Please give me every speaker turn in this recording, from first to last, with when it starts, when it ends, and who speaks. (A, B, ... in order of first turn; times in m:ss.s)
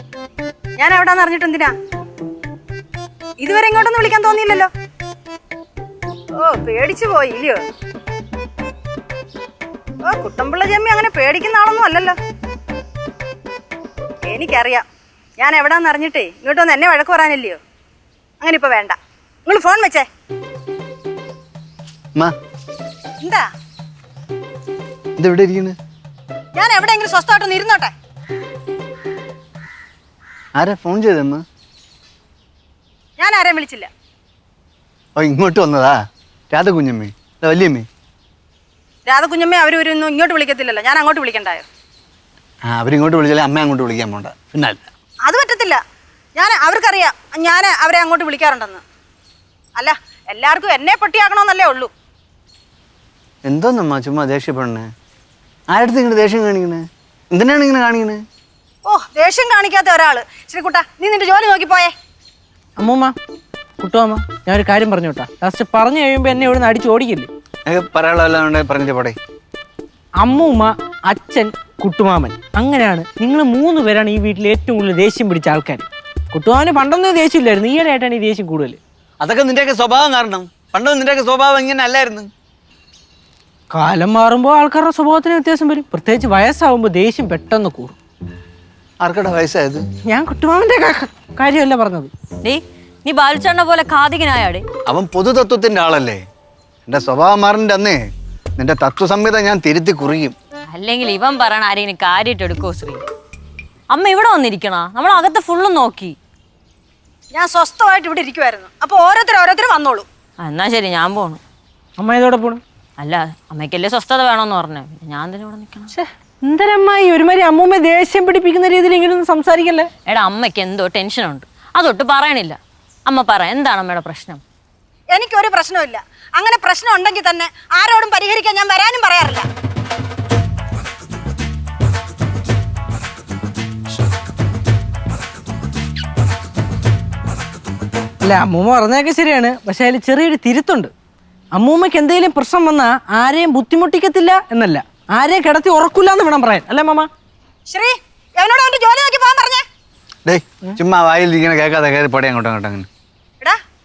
0:00.8-0:01.7 A
0:03.4-0:04.7 A
0:06.4-0:07.6 A
0:10.0-0:12.1 A
0:14.2-0:14.8 A
0:15.4-0:17.6 A
0:18.4-0:20.0 A
0:25.2-0:25.8 B
0:26.5-0:27.9 A
0:30.6-0:31.4 B
0:33.2-0:33.9 A
0:35.2-0:36.0 B
0:36.5-0:37.8 B
0:39.0-0:41.6 A
0:42.7-0:44.8 B
0:45.2-0:45.8 A
0:46.4-0:48.8 A
0:49.8-0:51.9 A
0:53.4-0:54.9 B
0:55.7-0:58.2 B
0:58.8-1:01.9 A
1:02.8-1:03.1 C
1:03.8-1:07.3 C
1:07.6-1:09.2 B
1:10.2-1:18.8 C
1:19.2-1:22.3 B
1:23.7-1:28.0 C
1:29.0-1:29.8 B
1:30.0-1:32.1 C
1:32.4-1:34.6 D
1:34.8-1:36.2 B
1:36.8-1:38.0 B
1:38.6-1:40.3 B
1:40.7-1:43.0 D
1:43.9-1:46.2 D
1:47.3-1:50.0 A
1:50.4-1:51.4 D
1:52.0-1:52.6 C
1:53.0-1:55.9 D
1:55.9-1:59.9 C
2:00.0-2:04.4 D
2:05.1-2:09.4 A
2:18.2-2:20.9 C
2:21.5-2:27.1 C
2:27.7-2:29.6 A
2:30.2-2:32.9 B